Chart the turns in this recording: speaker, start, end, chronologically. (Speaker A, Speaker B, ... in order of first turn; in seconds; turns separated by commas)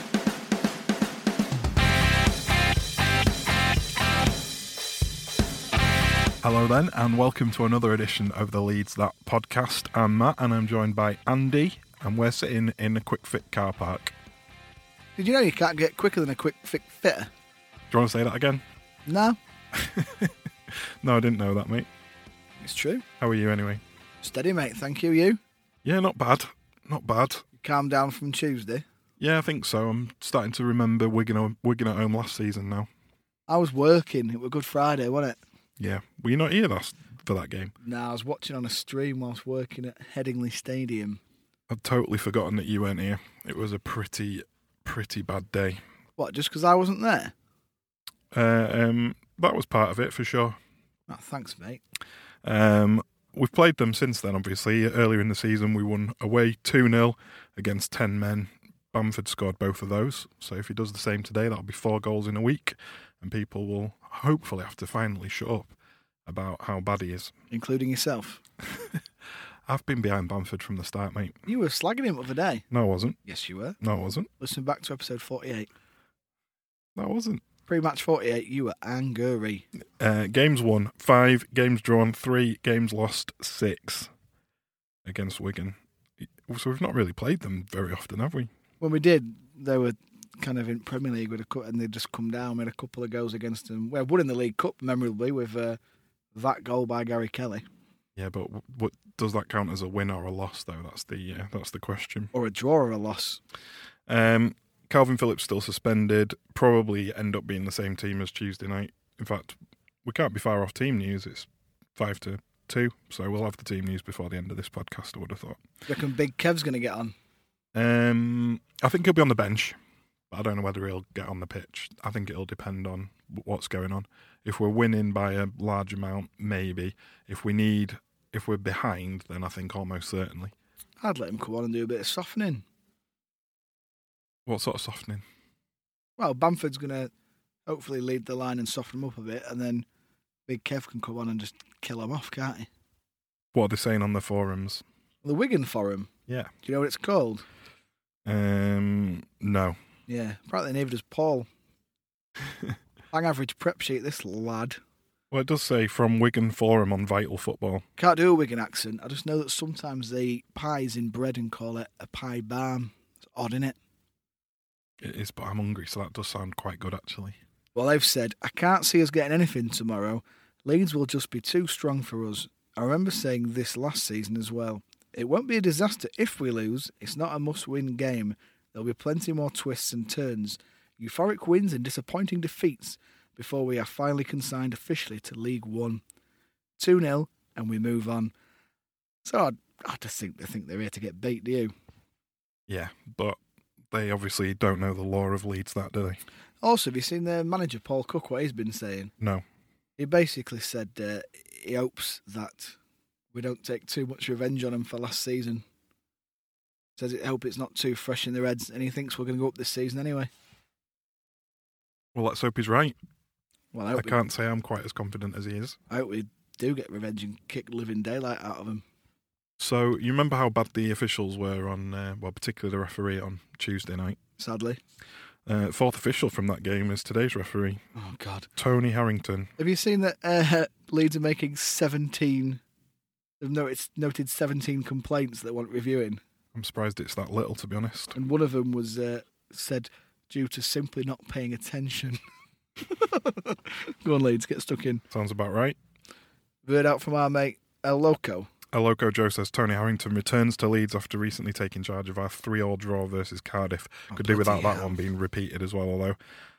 Speaker A: 6.4-14.1, Speaker B: 15.2-17.3, Speaker A: 17.9-18.6, Speaker B: 19.1-19.4, Speaker A: 19.7-20.3, Speaker A: 21.0-21.9, Speaker B: 22.6-23.0, Speaker A: 23.2-23.8, Speaker B: 24.2-25.4, Speaker A: 25.8-27.4, Speaker B: 27.6-28.9, Speaker A: 29.2-32.9, Speaker B: 33.5-35.4, Speaker A: 35.8-37.7, Speaker B: 37.8-41.2, Speaker A: 41.7-45.8, Speaker B: 46.2-47.3, Speaker A: 48.3-50.6, Speaker B: 51.1-51.8, Speaker A: 52.4-65.8, Speaker A: 66.3-67.3, Speaker B: 67.5-68.4, Speaker A: 69.7-71.4, Speaker B: 71.5-72.7, Speaker A: 72.7-73.2, Speaker B: 73.2-73.8, Speaker A: 73.8-74.3, Speaker B: 74.4-75.7, Speaker A: 77.0-77.4, Speaker B: 77.7-79.7, Speaker A: 80.0-84.1, Speaker A: 85.1-88.5, Speaker B: 88.8-95.8, Speaker B: 96.3-97.6, Speaker A: 98.2-102.3, Speaker B: 102.3-103.4, Speaker A: 104.1-115.6, Speaker B: 115.9-117.1, Speaker A: 117.8-119.8, Speaker A: 120.3-130.5, Speaker B: 131.0-132.6, Speaker A: 134.5-135.2, Speaker B: 136.2-137.1, Speaker B: 137.7-139.8, Speaker B: 140.5-142.7, Speaker A: 143.5-144.8, Speaker B: 145.2-146.1, Speaker B: 146.6-147.4, Speaker A: 148.3-149.8, Speaker B: 150.1-151.5, Speaker B: 153.1-154.8, Speaker A: 155.3-157.8, Speaker B: 158.0-163.8, Speaker A: 165.0-167.4, Speaker B: 167.7-186.0, Speaker B: 186.8-188.3, Speaker B: 189.2-191.7, Speaker A: 192.7-193.4, Speaker A: 193.9-196.2, Speaker B: 196.6-199.1, Speaker B: 200.0-202.8, Speaker B: 203.3-205.6, Speaker B: 207.0-210.3, Speaker A: 212.2-212.9, Speaker B: 213.7-214.3, Speaker A: 213.9-215.8, Speaker B: 215.9-218.8, Speaker A: 219.6-224.2, Speaker B: 224.4-224.8, Speaker A: 225.5-227.8, Speaker B: 228.0-228.5, Speaker A: 228.6-229.5, Speaker B: 229.6-232.6, Speaker B: 233.4-236.2, Speaker A: 236.5-238.2, Speaker B: 238.2-242.2, Speaker B: 242.8-245.0, Speaker A: 245.1-245.8, Speaker B: 246.7-248.5, Speaker A: 248.7-256.2, Speaker B: 254.1-255.0